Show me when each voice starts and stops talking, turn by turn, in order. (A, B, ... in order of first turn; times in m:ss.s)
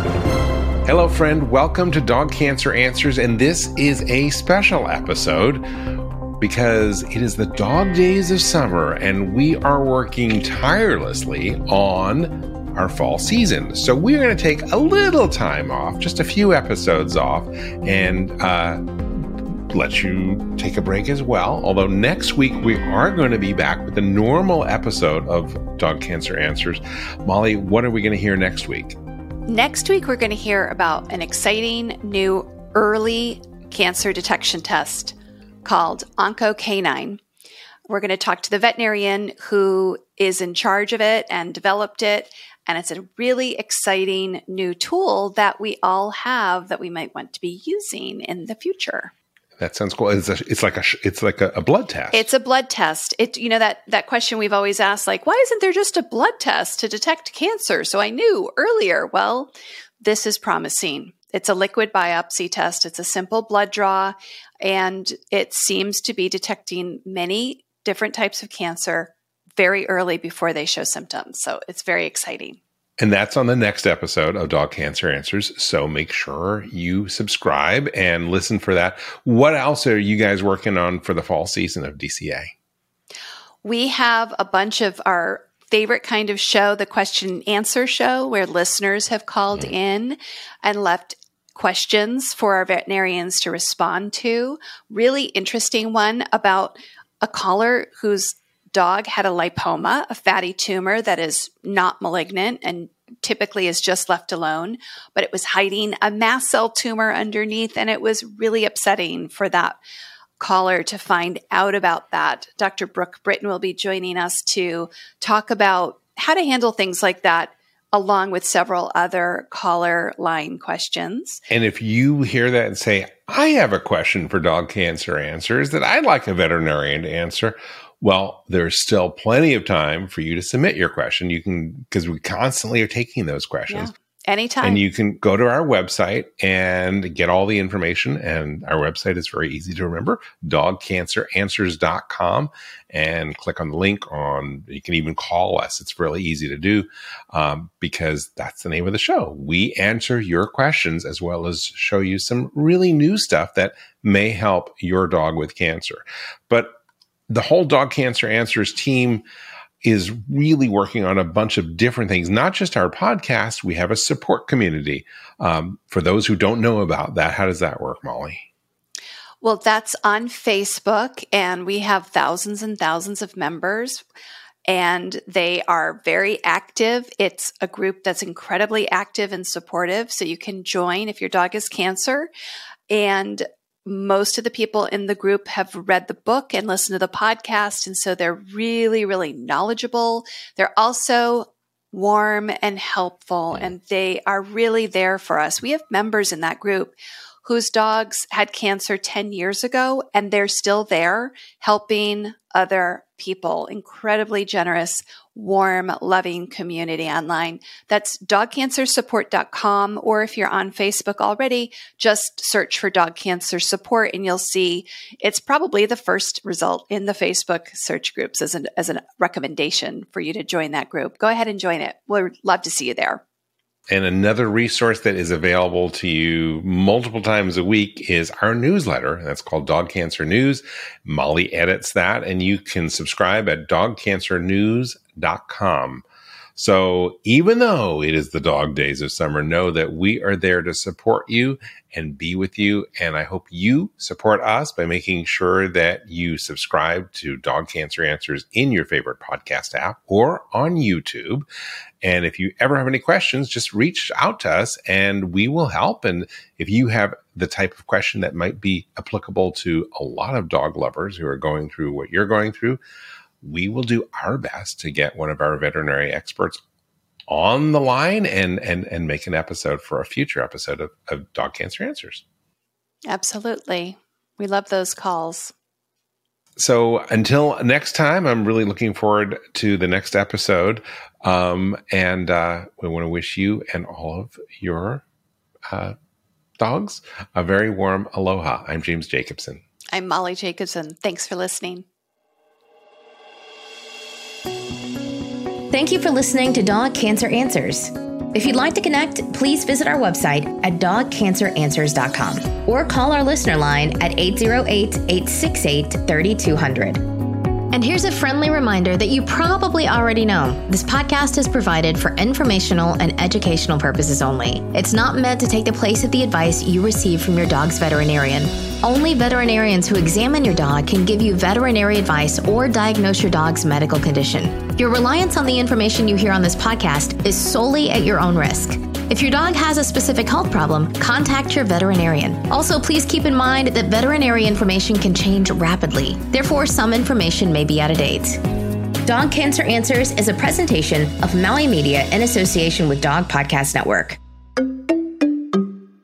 0:00.8-0:05.6 A
0:06.4-0:29.0 A
0:29.5-0:37.2 B
0:37.9-0:49.1 B
0:49.6-0:52.3 A
0:52.1-1:12.6 B
1:13.0-1:22.5 A
1:23.6-1:49.8 B
1:50.4-2:01.4 B
2:01.5-2:13.9 A
2:13.7-2:14.8 B
2:14.6-2:36.7 A
2:37.3-2:39.2 A
2:39.8-2:48.4 A
2:49.4-2:54.0 B
2:54.7-3:02.3 B
3:02.9-3:43.2 B
3:43.9-4:11.5 A
4:12.0-4:22.8 A
4:23.4-4:26.6 A
4:27.3-4:32.2 A
4:33.1-4:35.5 B
4:36.6-4:45.0 A
4:45.7-4:45.9 A
4:46.6-4:49.6 A
4:49.9-4:51.8 B
4:55.7-5:07.0 C
5:07.7-5:38.4 C
5:39.0-5:44.2 C